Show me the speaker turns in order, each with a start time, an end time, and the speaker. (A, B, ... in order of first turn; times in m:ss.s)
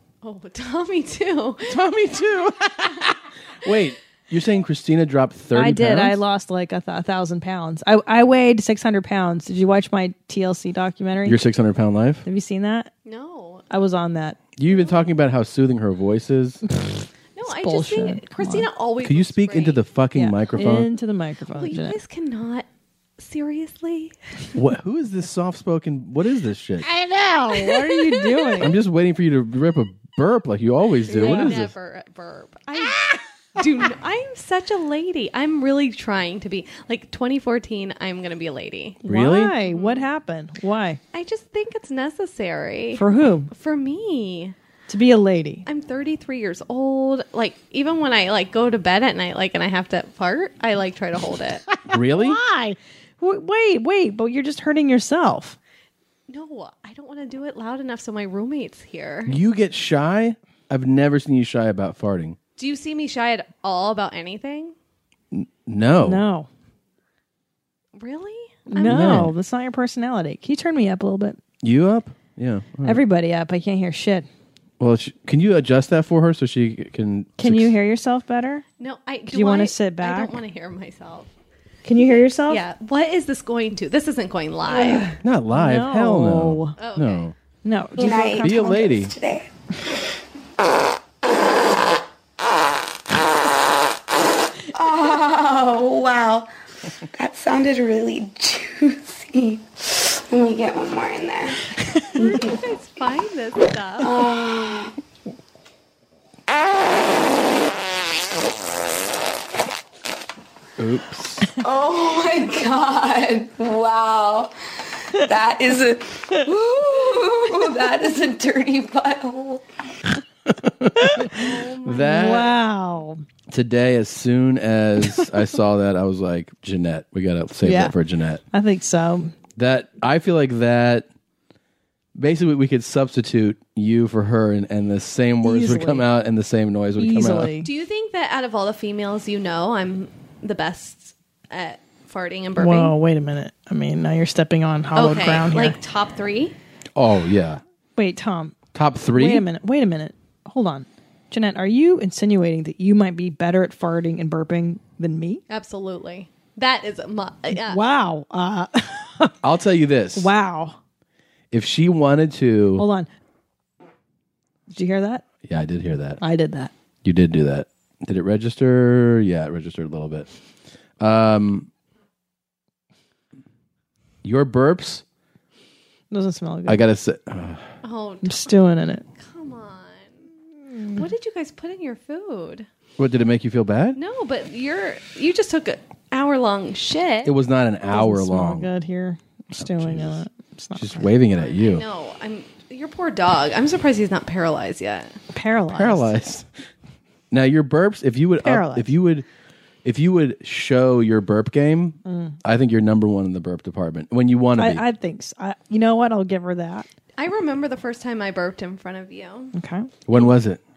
0:00.2-0:01.8 A
0:01.7-0:06.2 B
0:05.5-0:11.4 C
0:11.2-0:12.2 B
0:12.2-0:12.9 C
0:13.0-0:13.6 A
0:13.7-0:14.4 C
0:14.6-0:16.6 B
0:14.6-0:15.0 A
0:17.3-0:19.8 A
0:17.4-0:18.6 C
0:19.0-0:20.9 B
0:20.1-0:22.0 C
0:21.5-0:22.7 A
0:23.2-0:24.1 A
0:24.5-0:26.9 B
0:26.9-0:28.7 C
0:28.0-0:28.5 A
0:28.6-0:31.7 B
0:31.1-0:31.6 C
0:31.1-0:39.0 A
0:39.0-0:39.6 B
0:39.0-0:41.0 C
0:39.6-0:40.1 A
0:41.1-0:44.5 A
0:42.9-0:43.5 C
0:44.9-0:45.6 C
0:45.6-0:51.6 A
0:51.9-0:52.4 B
0:52.1-0:55.6 C
0:56.3-0:59.4 A
0:59.3-1:02.4 B
1:02.6-1:04.7 A
1:05.3-1:06.2 B
1:06.0-1:06.5 C
1:08.0-1:09.3 A
1:08.7-1:11.4 C
1:08.8-1:09.3 B
1:11.6-1:13.0 B
1:12.8-1:14.3 C
1:14.8-1:17.8 B
1:17.4-1:18.6 C
1:18.8-1:21.3 A
1:19.3-1:20.4 C
1:21.8-1:22.6 C
1:22.1-1:25.1 A
1:24.7-1:26.7 C
1:25.2-1:27.3 B
1:26.8-1:27.3 A
1:27.6-1:28.9 C
1:28.0-1:29.5 D
1:28.4-1:29.1 B
1:34.7-1:36.5 D
1:37.2-1:42.6 D
1:42.2-1:44.2 A
1:44.0-1:44.9 D
1:50.8-1:51.5 B
1:51.6-1:54.5 D
1:55.1-1:59.6 D
2:00.6-2:02.5 B
2:01.0-2:01.4 C
2:01.3-2:02.5 A
2:02.0-2:03.2 C
2:03.5-2:08.4 B
2:07.6-2:07.9 C
2:08.5-2:09.3 C
2:09.6-2:11.1 B
2:12.2-2:17.5 B
2:15.4-2:16.0 C
2:17.0-2:17.7 C
2:17.6-2:22.9 A
2:22.6-2:25.8 C
2:24.9-2:26.6 A
2:27.0-2:27.6 B
2:28.0-2:28.5 C
2:28.7-2:29.5 B
2:29.1-2:35.4 C
2:35.5-2:37.8 A
2:37.7-2:39.3 C
2:39.4-2:40.3 B
2:40.2-2:40.8 C
2:41.5-2:42.8 B
2:42.8-2:43.1 C
2:44.7-2:45.2 C
2:45.4-2:46.2 B
2:46.2-2:46.7 C
2:47.0-2:50.3 B
2:51.0-2:51.7 B
2:54.2-2:55.0 B
2:56.1-2:56.8 C
2:56.7-2:57.6 B
2:57.8-2:58.5 A
2:58.2-2:59.0 C
2:59.2-3:00.2 A
3:00.6-3:01.0 C
3:00.9-3:02.7 A
3:03.0-3:04.0 B
3:03.9-3:07.3 A
3:07.2-3:08.7 B
3:07.9-3:11.1 C
3:09.5-3:10.2 B
3:10.8-3:11.8 B
3:11.3-3:15.1 A
3:15.3-3:16.1 C
3:15.7-3:16.4 B
3:17.3-3:19.2 B
3:18.4-3:18.9 C
3:19.8-3:24.8 B
3:22.0-3:22.4 C
3:24.6-3:26.8 C
3:27.2-3:29.5 A
3:29.5-3:29.9 C
3:30.1-3:30.6 B